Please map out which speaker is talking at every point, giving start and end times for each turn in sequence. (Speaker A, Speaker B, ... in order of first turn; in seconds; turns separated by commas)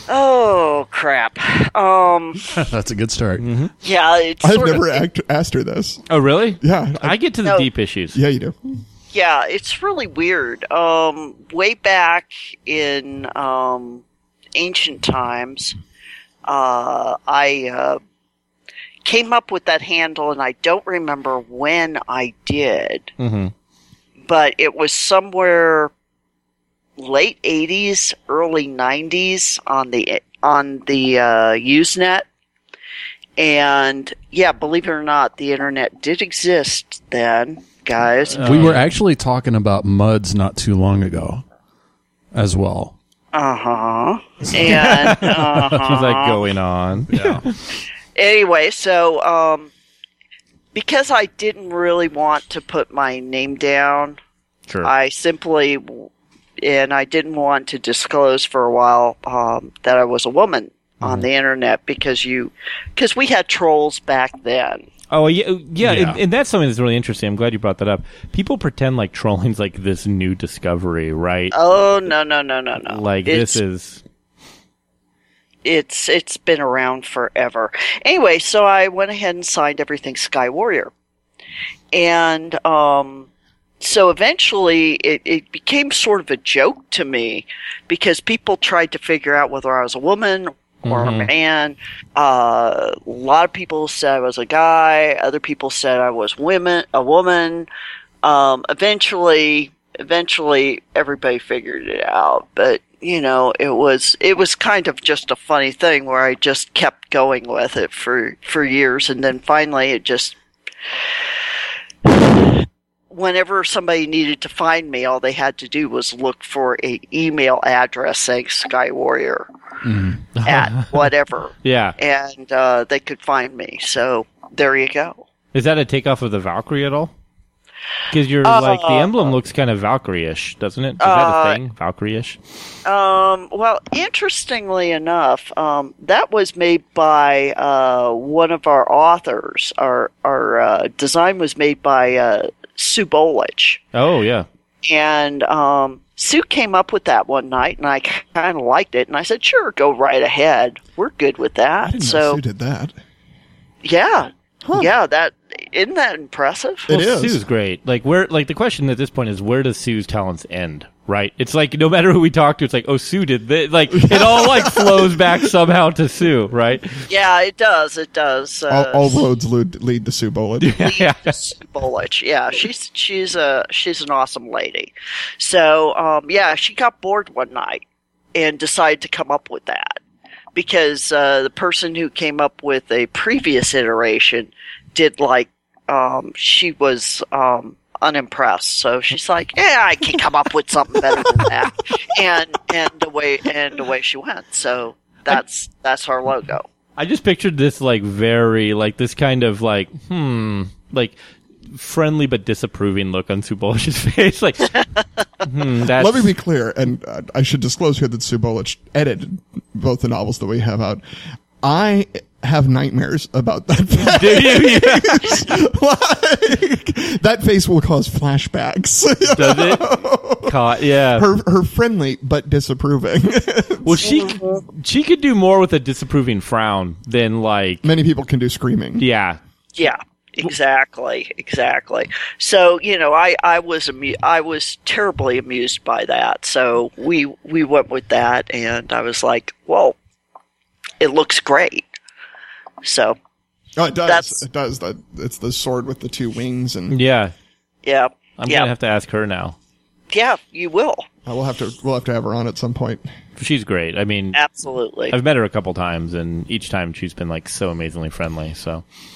Speaker A: 0.1-2.6, Speaker B: 2.5-3.5, Speaker C: 3.4-3.7, Speaker A: 3.8-5.0, Speaker D: 4.4-6.0, Speaker C: 6.1-8.2, Speaker D: 6.6-7.2, Speaker D: 8.1-8.8, Speaker A: 9.1-14.0, Speaker A: 14.6-15.8, Speaker A: 16.5-18.0, Speaker A: 19.0-23.1, Speaker C: 23.2-23.5, Speaker A: 24.3-25.9, Speaker A: 27.0-32.3, Speaker A: 33.4-38.7, Speaker C: 38.3-38.9, Speaker B: 38.4-41.4, Speaker B: 42.3-42.9, Speaker A: 43.3-46.4, Speaker C: 44.5-47.6, Speaker B: 47.1-47.5, Speaker A: 48.1-49.7, Speaker A: 50.7-54.2, Speaker A: 54.8-56.1, Speaker A: 56.6-64.9, Speaker C: 65.1-71.5, Speaker B: 65.8-66.2, Speaker A: 71.5-73.6, Speaker C: 72.9-74.0, Speaker A: 75.6-80.9, Speaker A: 81.9-83.3, Speaker A: 83.8-97.7, Speaker C: 90.8-91.3, Speaker A: 98.2-110.4, Speaker A: 112.0-119.5, Speaker B: 119.8-120.2, Speaker C: 120.3-121.1, Speaker A: 120.4-125.2, Speaker C: 121.6-122.0, Speaker C: 125.5-127.1, Speaker C: 128.1-132.4, Speaker A: 128.4-129.3, Speaker A: 131.0-131.6, Speaker A: 132.8-143.8, Speaker C: 143.9-144.5, Speaker A: 144.8-152.4, Speaker D: 151.8-152.9, Speaker A: 153.8-156.9, Speaker D: 154.7-154.9, Speaker D: 156.9-157.4, Speaker C: 156.9-167.0, Speaker D: 163.9-165.2, Speaker A: 167.1-169.3, Speaker D: 168.7-170.8, Speaker C: 170.6-171.3, Speaker A: 170.7-177.8, Speaker A: 178.3-180.0, Speaker A: 180.6-196.7, Speaker C: 197.0-204.8, Speaker C: 205.4-206.3, Speaker D: 205.9-211.0, Speaker D: 211.6-220.6, Speaker C: 214.0-215.5, Speaker C: 219.3-221.3, Speaker D: 221.1-224.1, Speaker C: 223.8-227.9, Speaker A: 224.0-224.6, Speaker D: 227.8-229.0, Speaker C: 229.0-229.4, Speaker A: 229.8-240.0, Speaker A: 241.0-241.9, Speaker A: 242.8-243.2, Speaker D: 243.8-246.9, Speaker A: 244.1-244.4, Speaker C: 246.9-247.3, Speaker A: 247.8-248.7, Speaker C: 248.4-249.6, Speaker A: 250.1-251.1, Speaker D: 251.3-253.1, Speaker C: 253.4-254.4, Speaker A: 254.3-255.2, Speaker C: 255.1-258.8